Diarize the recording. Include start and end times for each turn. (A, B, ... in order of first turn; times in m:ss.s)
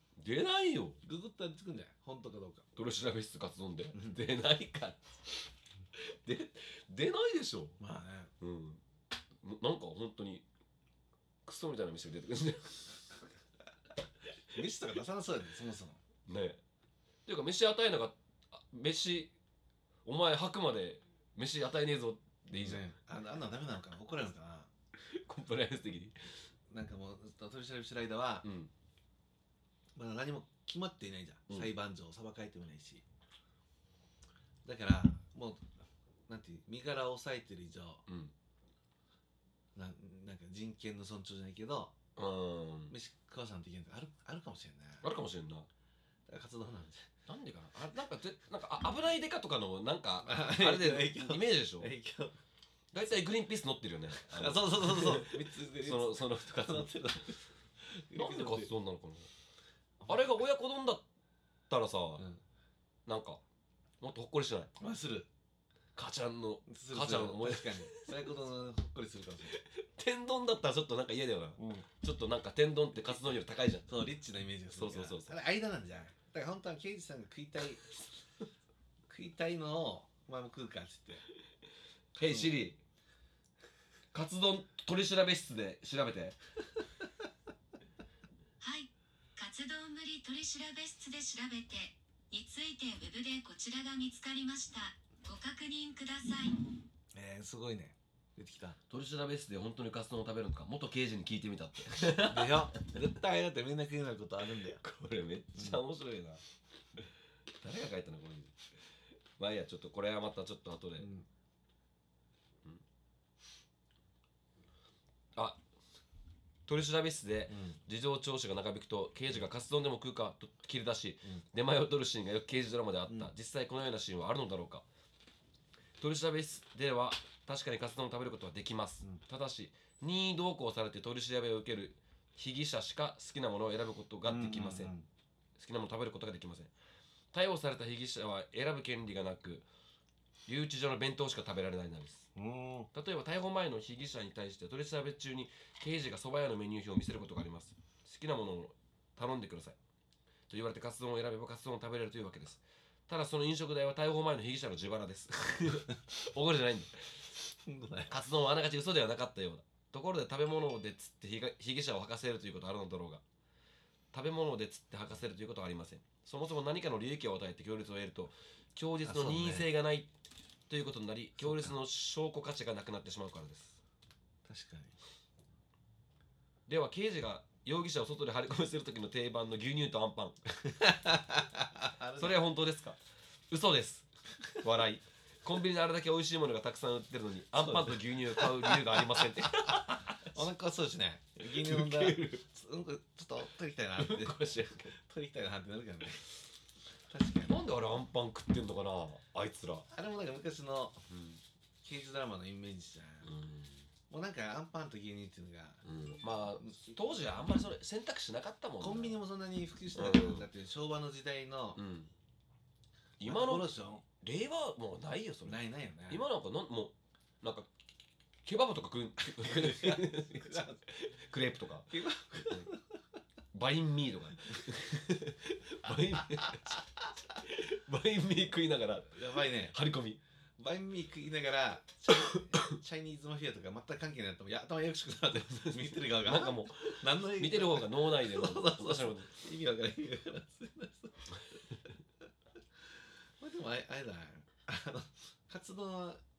0:00.2-0:01.0 A
0:01.0-0:02.7 B
0:02.8-0:05.5 A
0:03.9-0:04.2 B
0:06.0-0:07.8 A
0:07.8-0:08.3 B
0:08.4-0:08.8 A
0:09.4-0:10.4 A
0:11.4-0:13.1 A
0:14.5-0:16.0 B
0:16.3-0:16.6 A
0:17.3-0:19.3 A
0:20.0-0:22.8 A
0:22.5-0:24.7 B
0:25.0-0:26.2 A
0:26.7-0:28.5 B
0:28.4-0:28.7 A
0:30.0-0:33.0 B
0:34.6-0:35.7 B
0:36.3-0:38.0 B
0:38.1-0:38.3 A
0:39.8-0:42.0 B
0:42.2-0:42.9 A
0:42.9-0:45.0 B
0:45.0-0:45.7 A
0:46.3-0:47.1 B
0:47.3-0:51.9 A
0:50.2-0:52.4 B
0:52.9-0:57.2 A
0:54.2-0:58.7 B
0:58.1-0:59.3 A
1:00.1-1:01.0 A
1:01.7-1:02.2 A
1:03.1-1:03.4 A
1:04.0-1:04.7 A
1:04.8-1:05.3 B
1:06.0-1:08.3 A
1:06.7-1:09.6 B
1:09.5-1:14.0 A
1:13.9-1:18.0 B
1:14.7-1:15.4 A
1:19.1-1:21.2 B
1:22.2-1:22.8 A
1:22.2-1:22.5 B
1:24.1-1:26.4 A
1:28.6-1:36.6 C
1:37.1-1:38.8 B
1:38.9-1:42.7 A
1:42.2-1:44.8 B
1:44.6-1:46.4 A
1:47.6-1:48.6 A
1:49.4-1:51.1 A
1:51.0-1:51.3 B
1:55.4-1:55.6 A
1:56.7-2:04.8 A
1:57.5-1:57.8 B
2:06.0-2:14.9 A
2:14.2-2:15.1 B
2:15.6-2:16.7 A
2:17.3-2:19.7 A
2:20.5-2:22.3 A
2:22.4-2:22.9 B
2:22.9-2:29.8 A
2:30.5-2:37.3 A
2:37.6-2:38.2 B
2:38.1-2:43.2 A
2:44.1-2:50.1 A
2:49.0-2:49.7 B
2:50.7-2:53.8 A
2:51.4-2:51.7 B
2:54.4-2:55.0 B
2:56.7-3:00.4 A
3:00.7-3:02.4 B
3:02.2-3:03.0 A
3:03.5-3:10.4 A
3:07.6-3:14.4 B
3:11.4-3:12.4 A
3:14.0-3:15.0 A
3:14.9-3:16.2 B
3:17.1-3:17.6 B
3:17.5-3:19.9 A
3:19.9-3:21.1 B
3:21.1-3:21.4 A
3:21.8-3:23.3 B
3:23.2-3:23.9 A
3:24.1-3:25.8 B
3:25.8-3:29.2 A
3:26.6-3:27.0 B
3:28.8-3:31.8 B
3:30.0-3:30.5 A
3:31.8-3:32.1 A
3:33.2-3:37.7 A
3:33.2-3:34.0 B
3:35.4-3:36.3 B
3:38.4-3:42.7 A
3:39.3-3:40.8 B
3:41.9-3:42.8 B
3:43.5-3:46.8 A
3:46.3-3:46.6 B
3:47.4-3:50.2 A
3:49.1-3:49.8 B
3:50.6-4:01.6 B
3:55.6-3:59.4 A
4:03.4-4:06.2 B